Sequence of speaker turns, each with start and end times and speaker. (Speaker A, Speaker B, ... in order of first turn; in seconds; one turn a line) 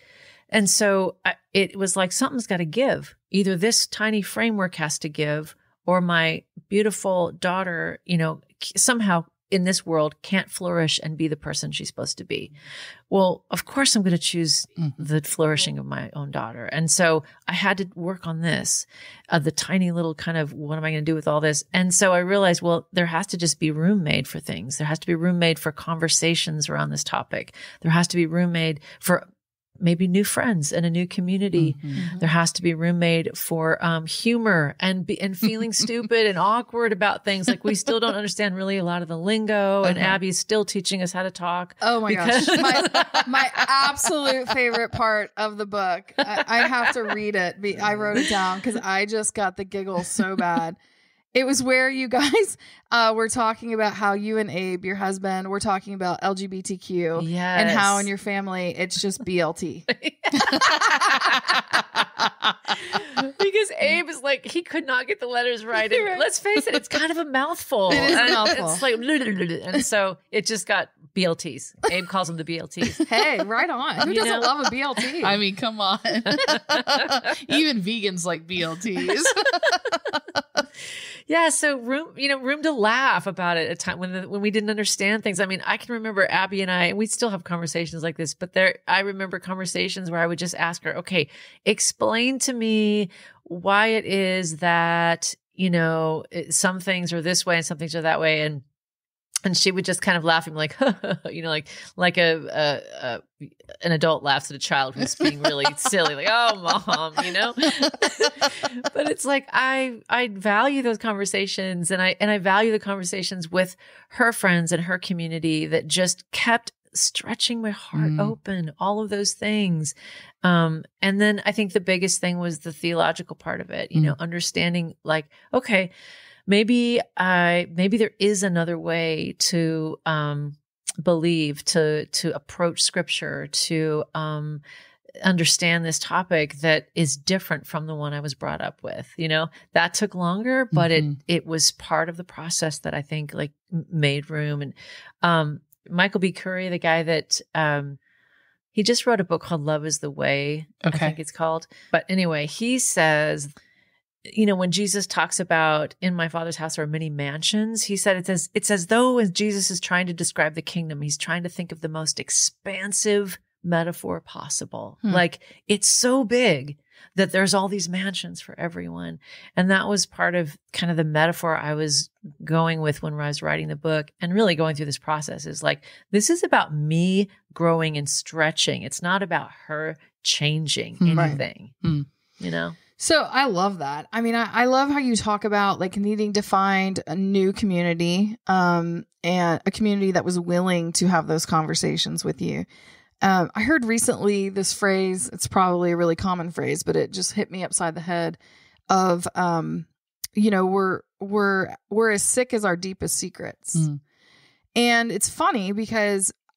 Speaker A: 0.5-12.5
Speaker A: 13.1-29.2
Speaker A: 29.8-43.6
Speaker B: 31.5-32.0
Speaker C: 31.9-32.2
Speaker C: 41.8-50.8
Speaker C: 51.3-59.9
Speaker A: 57.2-58.1
Speaker A: 59.9-62.0
Speaker A: 62.9-73.0
Speaker C: 65.9-66.2
Speaker C: 67.9-68.8
Speaker C: 73.0-75.4
Speaker A: 74.0-74.5
Speaker B: 75.2-79.8
Speaker A: 81.3-98.6
Speaker A: 99.4-125.9
Speaker B: 117.9-118.3
Speaker A: 126.5-134.6
Speaker A: 135.2-148.0
Speaker B: 140.7-141.2
Speaker A: 148.7-153.5
Speaker B: 150.8-151.2
Speaker A: 154.2-181.8
Speaker B: 181.0-182.1
Speaker C: 181.1-181.4
Speaker A: 182.4-182.8
Speaker C: 183.0-192.7
Speaker C: 193.2-198.4
Speaker C: 198.9-203.8
Speaker C: 204.7-206.3